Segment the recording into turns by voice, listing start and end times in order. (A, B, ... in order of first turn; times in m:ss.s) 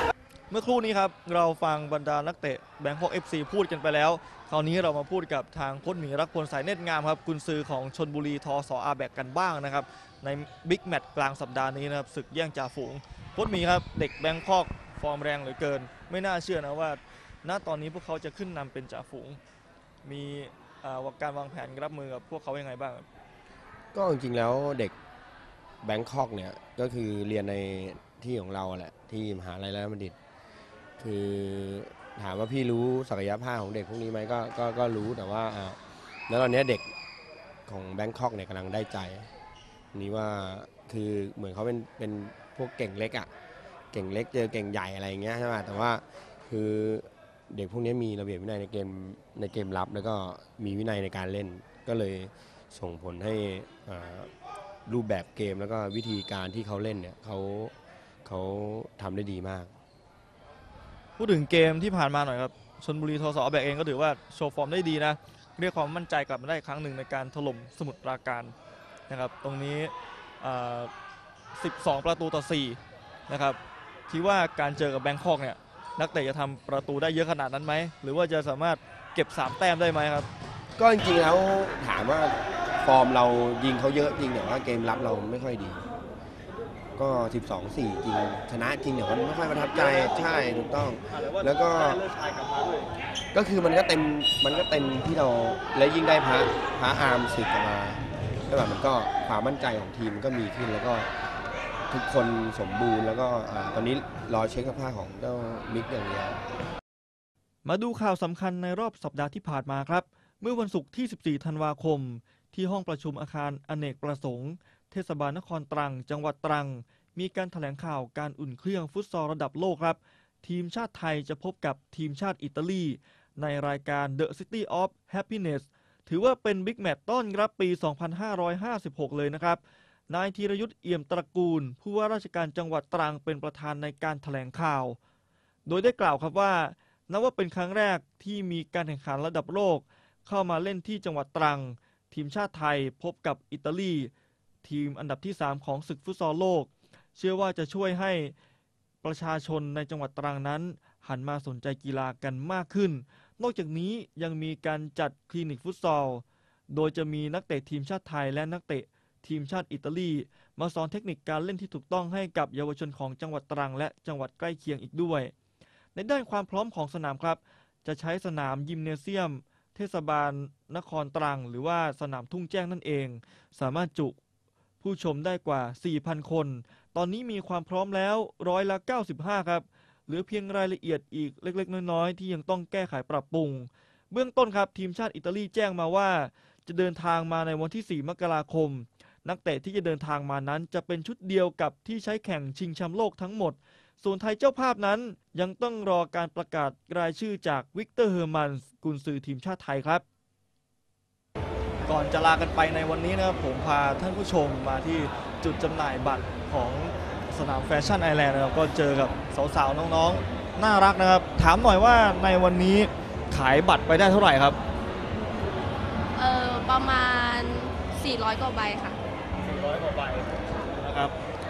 0:00.5-0:19.4 A
0:20.0-0:23.1 A
0:23.9-0:25.0 B
0:25.8-0:30.2 B
0:31.0-0:36.9 B
0:37.7-0:39.3 B
0:39.9-0:43.3 B
0:43.9-0:54.3 B
0:54.9-0:57.7 B
0:58.2-0:59.7 B
1:01.2-1:08.5 A
1:09.1-1:10.9 A
1:11.6-1:13.6 A
1:14.1-1:20.3 A
1:20.8-1:25.8 B
1:27.0-1:32.0 B
1:29.5-1:32.9 A
1:33.3-1:41.1 B
1:41.9-1:46.4 B
1:47.6-2:15.0 A
2:15.7-2:24.1 A
2:24.6-2:28.3 A
2:29.0-2:45.3 A
2:46.0-2:54.2 A
2:54.8-3:20.0 A
3:21.8-3:34.6 A
3:36.2-3:39.0 C
3:39.4-3:41.2 A